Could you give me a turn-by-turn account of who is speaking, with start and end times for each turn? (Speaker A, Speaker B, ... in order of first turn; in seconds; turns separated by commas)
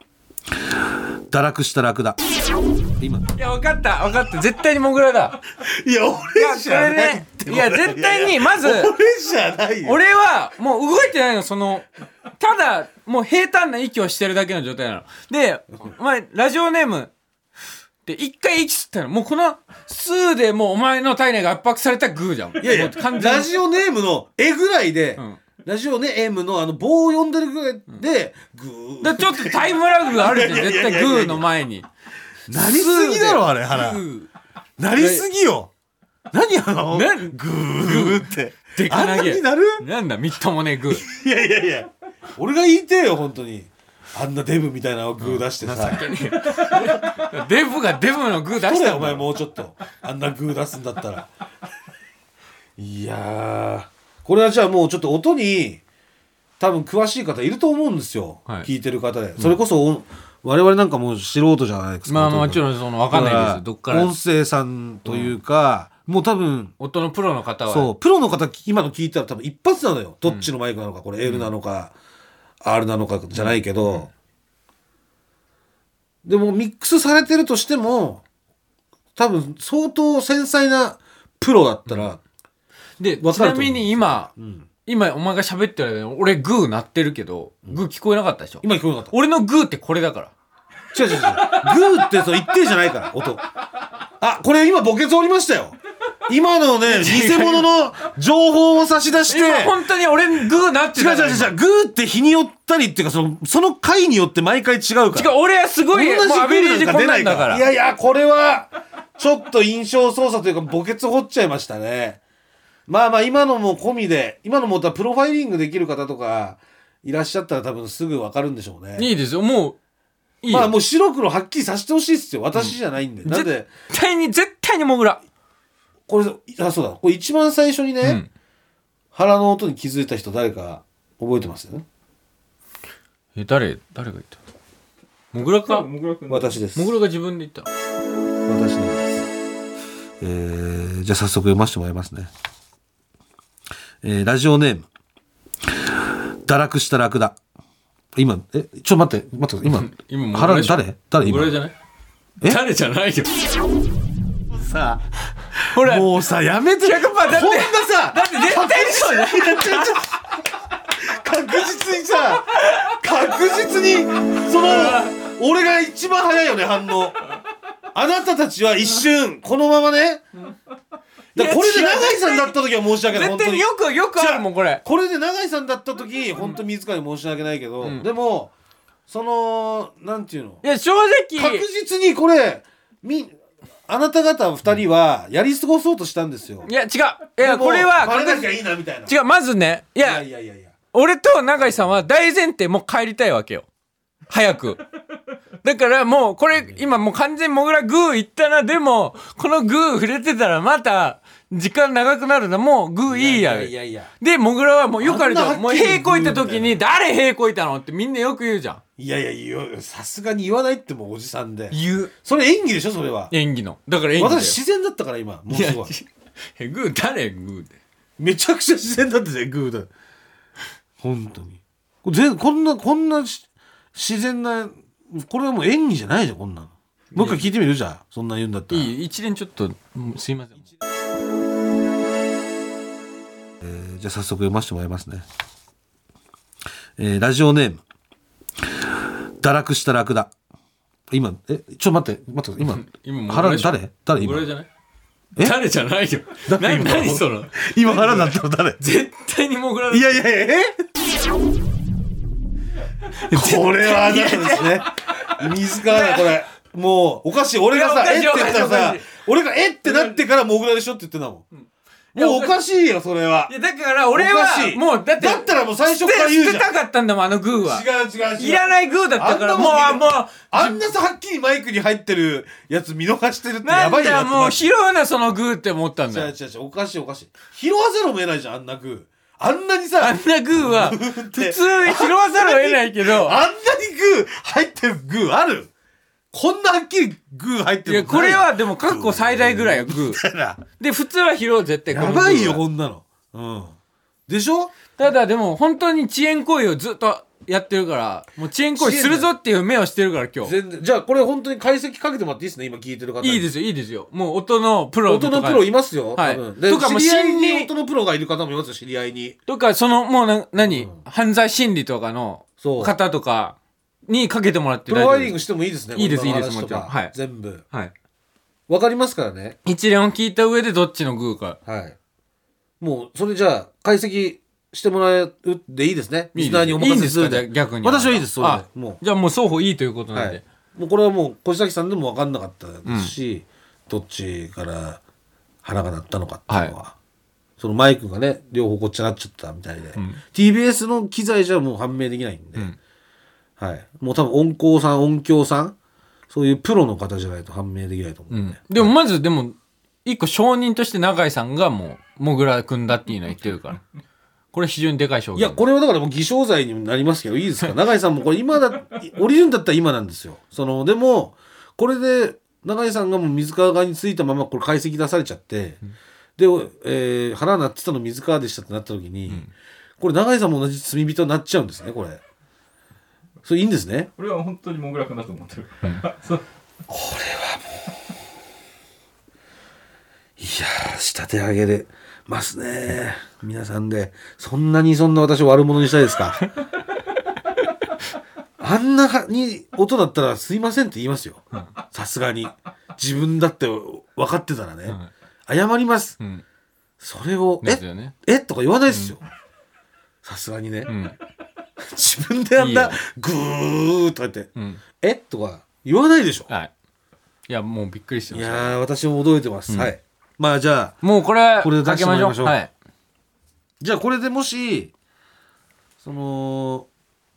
Speaker A: 0.6-2.2, Speaker A: 3.0-3.3, Speaker B: 3.4-5.4, Speaker A: 5.6-10.0, Speaker B: 6.3-8.9, Speaker B: 9.8-11.9, Speaker B: 12.4-17.1, Speaker B: 18.1-23.5, Speaker A: 22.6-31.5, Speaker B: 29.0-31.9, Speaker A: 32.5-34.0, Speaker B: 32.5-34.3, Speaker A: 34.8-35.7, Speaker B: 35.0-35.3, Speaker A: 36.3-39.8, Speaker B: 36.9-41.0, Speaker A: 40.9-47.3, Speaker B: 45.2-49.3, Speaker A: 48.6-51.3, Speaker A: 52.8-55.8, Speaker A: 56.6-66.7, Speaker B: 62.1-64.1, Speaker B: 65.1-65.4, Speaker B: 66.8-67.9, Speaker A: 67.7-71.9, Speaker B: 71.2-71.5, Speaker A: 72.6-74.1, Speaker B: 73.3-74.1, Speaker A: 76.2-78.2, Speaker A: 79.2-82.2, Speaker B: 83.0-84.3, Speaker A: 83.2-84.7, Speaker B: 84.9-90.3, Speaker A: 88.6-89.2, Speaker A: 90.9-93.5, Speaker A: 94.2-99.8, Speaker B: 96.9-97.7, Speaker B: 99.3-101.5, Speaker A: 100.9-105.3, Speaker B: 105.1-107.7, Speaker A: 105.9-112.2, Speaker A: 112.9-119.1, Speaker B: 119.0-119.8, Speaker B: 120.4-120.7, Speaker A: 120.5-123.7, Speaker B: 123.3-125.2, Speaker A: 126.1-128.2, Speaker B: 128.0-128.3, Speaker A: 129.1-131.8, Speaker B: 133.4-134.4, Speaker B: 135.3-135.9, Speaker C: 135.4-136.6, Speaker A: 136.3-137.0, Speaker B: 136.8-137.7, Speaker A: 138.5-139.3, Speaker A: 140.2-142.3, Speaker A: 144.0-144.9, Speaker A: 145.7-147.4, Speaker A: 148.2-151.6, Speaker B: 149.7-151.8, Speaker B: 152.4-153.6, Speaker A: 154.5-155.0, Speaker B: 155.6-156.2, Speaker A: 155.6-167.2, Speaker B: 156.8-160.1, Speaker B: 162.5-163.0, Speaker B: 164.4-165.2, Speaker A: 167.9-170.2, Speaker B: 171.3-174.8, Speaker A: 171.3-178.5, Speaker A: 179.1-180.6, Speaker B: 180.6-181.7, Speaker A: 181.4-183.3, Speaker A: 183.9-186.7, Speaker B: 186.7-188.5, Speaker A: 187.4-189.1, Speaker B: 189.1-190.2, Speaker A: 190.0-190.7, Speaker B: 190.9-193.7, Speaker B: 194.3-194.8, Speaker B: 195.6-208.8, Speaker A: 203.1-204.1, Speaker A: 205.0-206.8, Speaker A: 209.0-213.3, Speaker B: 211.7-212.1, Speaker B: 213.3-214.6, Speaker A: 214.2-215.9, Speaker B: 215.5-217.8, Speaker A: 218.2-219.9, Speaker A: 221.0-228.9, Speaker B: 227.1-227.5, Speaker B: 228.7-230.7, Speaker A: 233.6-235.2, Speaker A: 237.0-237.8, Speaker A: 238.7-240.3, Speaker A: 241.1-244.5, Speaker B: 242.6-244.7, Speaker B: 245.4-250.2, Speaker A: 246.5-248.8, Speaker A: 249.9-250.8, Speaker B: 253.1-256.3, Speaker A: 253.3-261.5, Speaker B: 257.7-259.1, Speaker B: 259.9-260.2, Speaker B: 262.1-262.6, Speaker A: 262.1-263.5, Speaker B: 263.5-267.9, Speaker A: 264.1-266.7, Speaker A: 267.6-274.6, Speaker B: 268.4-270.9, Speaker B: 273.6-276.3, Speaker A: 276.1-285.7, Speaker B: 280.0-283.4, Speaker A: 286.3-290.6, Speaker B: 287.9-290.2, Speaker B: 290.8-292.6, Speaker A: 291.9-293.8, Speaker A: 294.3-294.7, Speaker B: 295.0-300.6, Speaker A: 298.8-299.3, Speaker A: 300.4-303.5, Speaker B: 303.2-307.7, Speaker A: 305.1-309.4, Speaker B: 309.5-313.6, Speaker A: 310.6-311.0, Speaker A: 312.6-312.9, Speaker B: 314.1-315.4, Speaker A: 314.9-317.6, Speaker B: 315.9-317.1, Speaker A: 318.7-319.6, Speaker B: 319.6-321.6, Speaker A: 321.7-322.0, Speaker A: 322.8-329.0, Speaker B: 326.3-330.4, Speaker A: 330.1-335.0, Speaker B: 332.9-333.1, Speaker A: 335.6-336.9, Speaker B: 336.5-336.8, Speaker A: 337.6-342.7, Speaker B: 339.9-340.2, Speaker A: 343.6-345.8, Speaker A: 346.3-348.9, Speaker B: 348.3-353.8, Speaker B: 354.5-355.6, Speaker A: 355.4-365.8, Speaker A: 366.4-369.5, Speaker A: 370.0-372.2, Speaker A: 373.4-374.1, Speaker C: 374.2-376.4, Speaker A: 376.9-377.7, Speaker A: 380.4-386.4, Speaker A: 388.6-396.2, Speaker A: 397.0-399.2, Speaker B: 397.6-398.1, Speaker A: 400.2-400.9, Speaker B: 400.9-401.2, Speaker A: 401.8-406.5, Speaker B: 402.6-403.0, Speaker B: 404.6-404.8, Speaker B: 407.5-408.8, Speaker A: 408.3-411.0, Speaker B: 411.0-412.7, Speaker A: 411.6-412.6, Speaker A: 413.8-414.9, Speaker A: 416.0-416.9